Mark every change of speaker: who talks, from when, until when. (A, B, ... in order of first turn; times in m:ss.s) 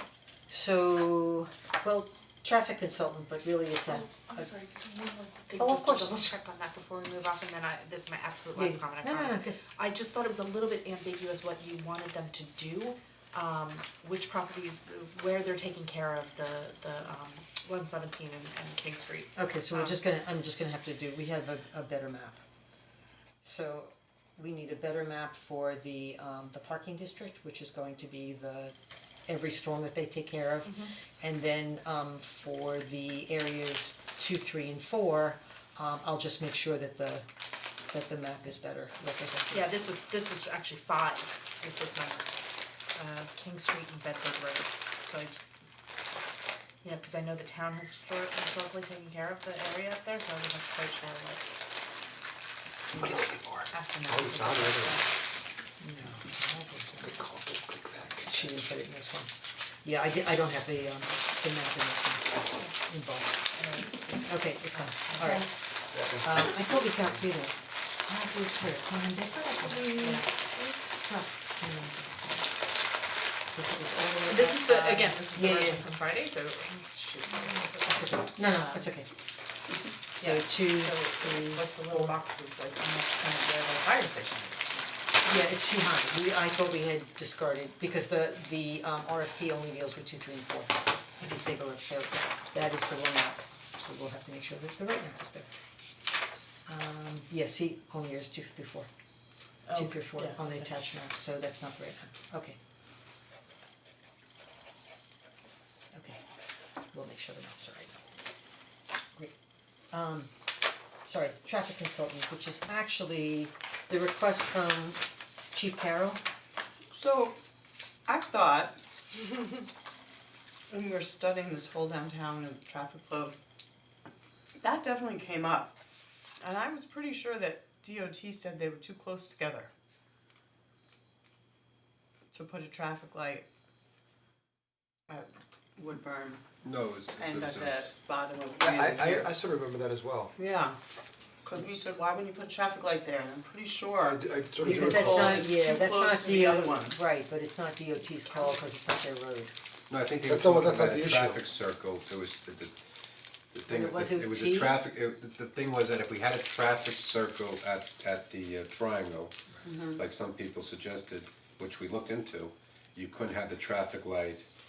0:00.5-0:04.5 A
0:03.9-0:20.0 B
0:05.6-0:06.3 A
0:08.5-0:09.6 A
0:19.4-0:22.4 A
0:23.4-0:28.7 A
0:29.3-0:37.2 A
0:30.6-0:30.9 B
0:37.9-0:39.7 A
0:39.5-0:42.4 B
0:42.9-0:45.5 B
0:46.8-0:51.4 B
0:52.9-0:55.0 C
0:53.7-0:55.1 B
0:55.8-0:57.2 A
0:57.0-0:58.3 C
0:58.2-1:05.5 A
1:03.5-1:05.5 B
1:05.9-1:07.0 C
1:06.2-1:12.5 A
1:09.6-1:10.3 B
1:13.5-1:15.8 A
1:14.2-1:18.9 B
1:17.7-1:19.1 A
1:20.1-1:22.1 A
1:20.2-1:24.9 B
1:25.2-1:35.5 A
1:36.6-1:38.9 A
1:39.6-1:40.8 B
1:39.7-1:42.6 A
1:45.9-1:46.2 A
1:46.9-1:48.0 A
1:49.9-1:50.3 A
1:51.0-1:56.2 A
1:56.9-1:57.4 D
1:58.1-1:58.8 D
2:00.7-2:03.4 D
2:04.6-2:05.8 D
2:06.4-2:09.7 D
2:12.3-2:13.4 D
2:15.1-2:16.4 D
2:16.6-2:17.9 E
2:17.2-2:19.3 D
2:18.6-2:20.3 C
2:20.4-2:20.8 D
2:21.4-2:27.0 D
2:24.0-2:25.5 C
2:24.6-2:29.5 A
2:29.9-2:32.7 E
2:30.3-2:31.4 C
2:33.5-2:39.3 E
2:33.7-2:34.8 A
2:39.6-2:40.0 D
2:39.9-2:44.5 E